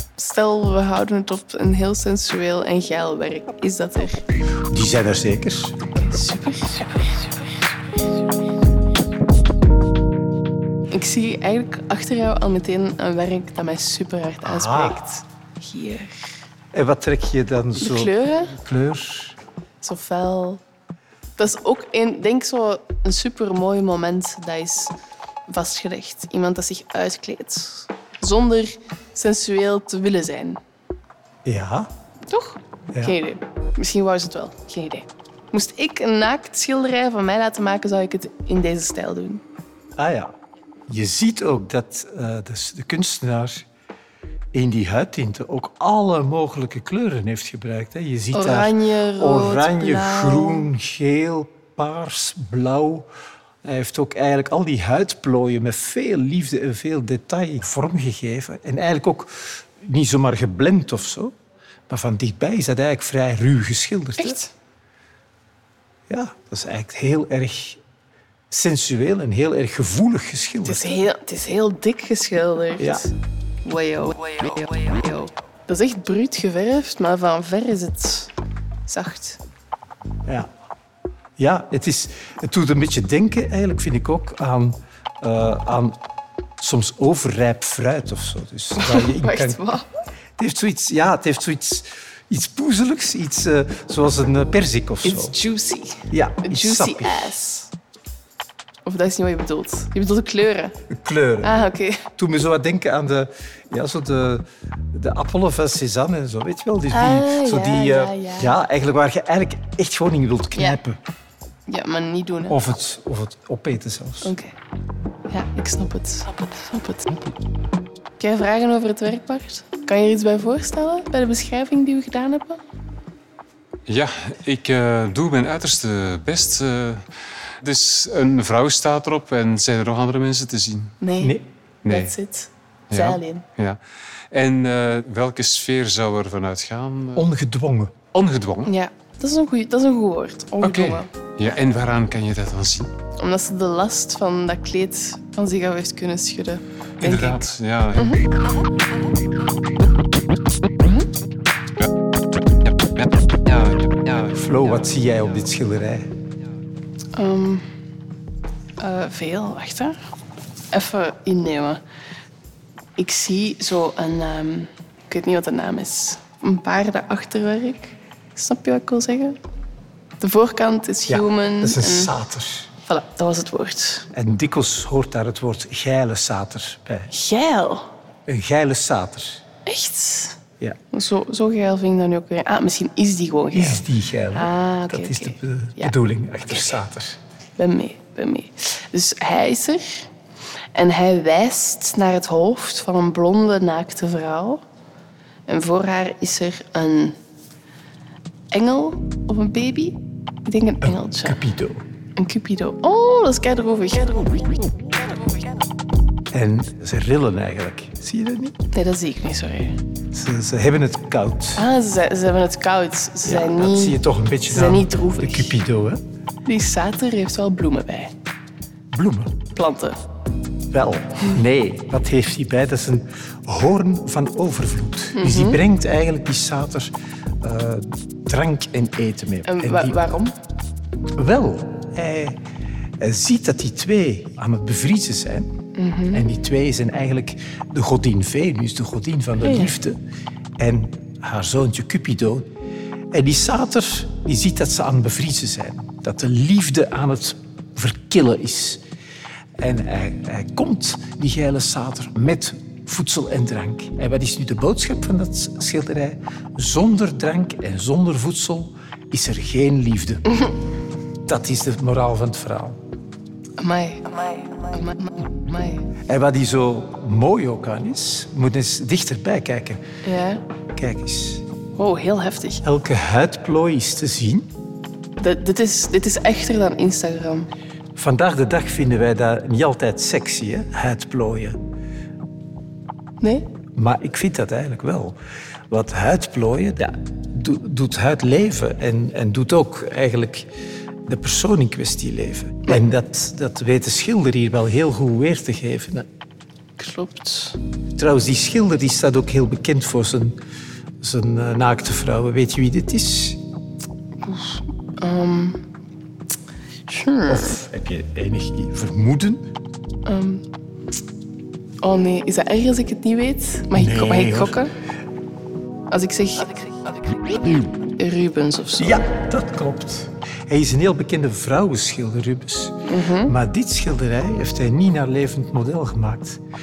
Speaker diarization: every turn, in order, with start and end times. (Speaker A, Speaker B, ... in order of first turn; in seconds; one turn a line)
Speaker A: 0.2-4.2
Speaker B: 4.7-5.8
Speaker A: 5.8-7.8
Speaker A: 10.9-16.2
Speaker B: 14.4-15.0
Speaker B: 16.7-19.4
Speaker A: 17.8-18.6
Speaker A: 19.8-20.6
Speaker A: 21.4-24.9
Speaker A: 25.5-30.6
Speaker B: 31.4-31.9
Speaker A: 32.3-39.4
Speaker B: 40.0-40.3
Speaker B: 40.9-43.7
Speaker B: 44.5-53.1
Speaker A: 48.3-50.7
Speaker B: 53.6-61.3
Speaker B: 61.9-64.4
Speaker A: 64.2-64.5
Speaker B: 66.1-67.8
Speaker B: 68.5-71.0
Speaker A: 70.6-73.1
Speaker B: 72.8-73.1
Speaker A: 73.6-78.3
Speaker A: 78.9-79.4
Speaker B: 81.4-86.0
Speaker B: 86.6-89.6
Speaker A: 88.8-89.9
Speaker B: 90.4-95.3
Speaker A: 95.0-97.7
Speaker B: 96.1-97.3
Speaker A: 98.8-100.8
Speaker B: 100.9-101.6
Speaker A: 101.4-102.1
Speaker B: 102.2-111.0
Speaker A: 106.9-108.5
Speaker A: 111.7-112.6
Speaker B: 112.5-114.3
Speaker A: 114.2-114.5
Speaker A: 115.3-117.1
Speaker A: 118.2-122.6
Speaker C: 123.9-127.1
Speaker C: 127.6-131.0
Speaker A: 131.0-133.4
Speaker C: 131.8-132.1
Speaker C: 132.9-133.8
Speaker C: 134.3-137.3
Speaker B: 137.2-138.0
Speaker C: 138.1-138.7
Speaker A: 138.7-141.1
Speaker C: 140.6-142.9
Speaker A: 143.2-147.4
Speaker C: 147.0-148.2
Speaker A: 148.0-148.2
Speaker C: 153.4-154.3
Speaker B: 154.3-156.1
Speaker A: 157.2-157.7
Speaker A: 158.8-160.0
Speaker A: 160.7-161.8
Speaker A: 163.0-169.4
Speaker A: 170.2-172.1
Speaker B: 171.1-172.7
Speaker A: 172.8-174.1
Speaker B: 174.1-177.1
Speaker A: 177.1-177.9
Speaker B: 178.3-179.4
Speaker A: 179.7-180.4
Speaker A: 180.9-186.0
Speaker B: 183.5-187.2
Speaker A: 186.5-186.7
Speaker A: 187.6-190.1
Speaker A: 190.7-194.6
Speaker A: 195.5-197.2
Speaker A: 198.5-201.4
Speaker B: 200.8-201.8
Speaker A: 202.2-204.5
Speaker B: 206.3-208.6
Speaker A: 208.7-209.8
Speaker B: 210.1-211.7
Speaker A: 211.6-215.6
Speaker B: 213.3-216.0
Speaker A: 216.5-218.1
Speaker B: 218.9-219.5
Speaker A: 219.5-220.0
Speaker B: 220.7-230.0
Speaker A: 225.2-225.6
Speaker A: 229.5-230.3
Speaker B: 231.2-232.4
Speaker B: 233.0-235.5
Speaker A: 235.8-236.3
Speaker B: 236.1-240.0
Speaker A: 239.4-239.8
Speaker B: 240.6-242.5
Speaker B: 243.1-248.8
Speaker B: 249.6-260.4
Speaker B: 261.3-262.8
Speaker A: 263.6-265.9
Speaker B: 266.1-269.8
Speaker A: 270.1-270.4
Speaker B: 270.7-271.4
Speaker A: 271.8-272.6
Speaker B: 272.6-274.5
Speaker A: 275.2-277.5
Speaker B: 278.0-281.6
Speaker A: 283.2-283.5
Speaker B: 283.8-285.2
Speaker B: 285.7-290.5
Speaker B: 291.1-296.1
Speaker A: 296.8-297.6
Speaker B: 298.0-300.4
Speaker B: 301.0-303.4
Speaker A: 304.2-305.6
Speaker A: 306.9-307.6
Speaker B: 307.3-309.5
Speaker A: 310.1-310.4
Speaker A: 311.8-314.7
Speaker B: 313.7-314.6
Speaker A: 315.9-316.6
Speaker A: 317.9-319.1
Speaker B: 318.8-326.4
Speaker A: 322.9-323.4